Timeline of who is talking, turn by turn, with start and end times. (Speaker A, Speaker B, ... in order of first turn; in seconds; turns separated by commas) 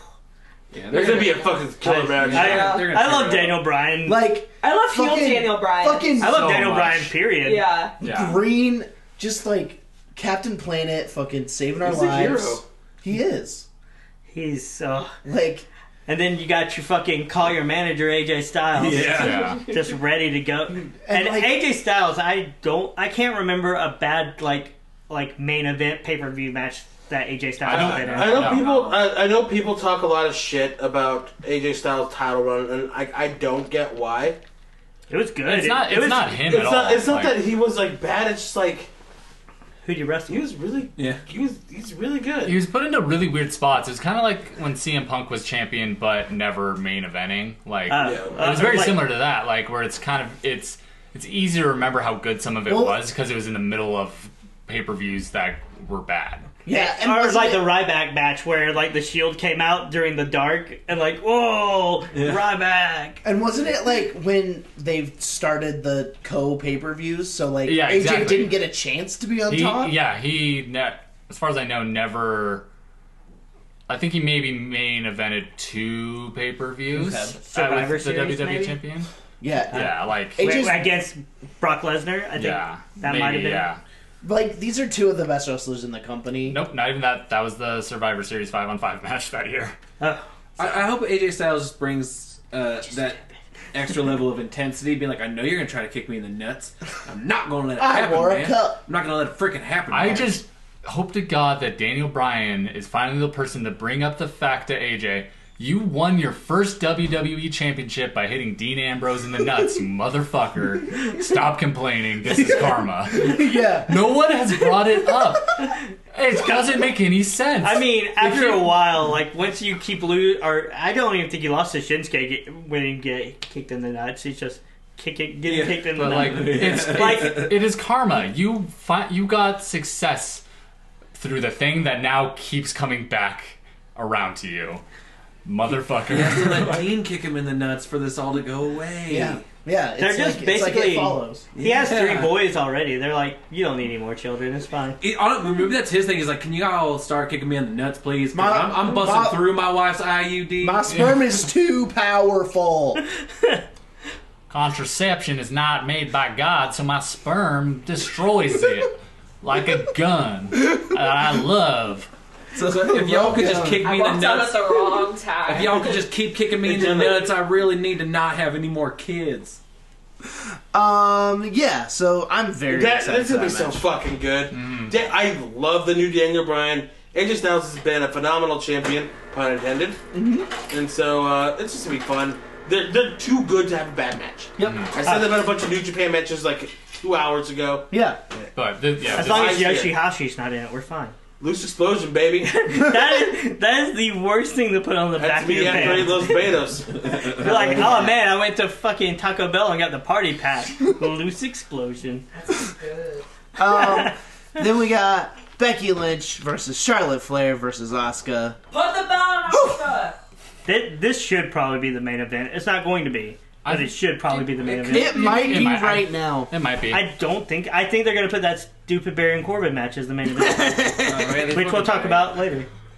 Speaker A: 0.7-3.7, Speaker B: 0.9-2.9, Speaker C: 2.3-4.2, Speaker D: 2.4-2.9, Speaker E: 4.0-6.8, Speaker D: 4.6-6.2, Speaker F: 6.2-7.2, Speaker C: 6.2-7.7, Speaker D: 7.4-7.9, Speaker F: 8.0-8.4, Speaker E: 8.0-13.7, Speaker B: 11.8-12.6, Speaker C: 14.3-15.1, Speaker E: 15.2-15.7, Speaker C: 16.1-28.5, Speaker A: 18.7-19.5, Speaker F: 19.0-19.6, Speaker E: 20.7-21.7, Speaker B: 27.6-34.4, Speaker A: 27.7-29.1, Speaker F: 27.7-28.6, Speaker C: 35.1-36.3, Speaker F: 35.4-37.4, Speaker B: 36.4-38.9, Speaker C: 39.8-40.5, Speaker B: 40.3-42.6, Speaker A: 41.0-41.2, Speaker F: 42.5-56.5, Speaker C: 47.9-49.1, Speaker B: 48.0-48.6, Speaker E: 52.7-53.0, Speaker E: 56.6-57.7, Speaker C: 56.7-63.2, Speaker A: 62.1-62.4, Speaker E: 63.2-69.9, Speaker F: 67.6-68.6, Speaker F: 69.5-72.7, Speaker F: 73.9-79.1, Speaker E: 76.9-77.3, Speaker C: 77.5-78.8, Speaker E: 79.4-81.0, Speaker F: 79.7-80.4, Speaker C: 79.7-83.7, Speaker F: 82.3-83.8, Speaker E: 84.2-86.6, Speaker F: 86.5-89.8, Speaker C: 90.0-90.2, Speaker A: 90.6-93.2, Speaker A: 93.7-100.4, Speaker E: 97.8-98.8, Speaker F: 99.9-118.8, Speaker E: 113.1-114.1, Speaker C: 117.6-127.5, Speaker A: 125.4-127.5, Speaker F: 125.9-130.4, Speaker F: 131.1-134.8, Speaker F: 135.4-136.8, Speaker A: 136.1-139.5, Speaker E: 139.1-141.5, Speaker C: 140.0-145.0, Speaker A: 141.5-142.4, Speaker A: 145.0-150.8, Speaker E: 148.3-149.6, Speaker E: 150.6-153.0, Speaker F: 150.9-151.2, Speaker F: 154.5-162.1, Speaker E: 162.5-163.8, Speaker A: 162.6-169.6, Speaker D: 163.8-166.0, Speaker B: 166.6-167.3, Speaker E: 170.7-173.8, Speaker B: 172.7-180.0, Speaker F: 174.5-174.9, Speaker E: 180.1-180.5, Speaker B: 180.7-187.9, Speaker F: 184.6-184.9, Speaker E: 187.9-188.2, Speaker F: 188.5-189.6, Speaker C: 189.1-191.2, Speaker B: 189.1-189.9, Speaker B: 191.4-192.6, Speaker C: 192.4-196.5, Speaker B: 195.1-197.5, Speaker C: 197.3-202.3, Speaker D: 202.8-203.2, Speaker E: 203.6-208.6, Speaker C: 203.8-204.1, Speaker D: 208.7-210.2, Speaker E: 209.5-209.8, Speaker C: 210.6-215.5, Speaker F: 213.6-217.1, Speaker E: 214.8-216.5, Speaker C: 216.9-222.7, Speaker E: 220.4-221.4, Speaker A: 221.1-222.4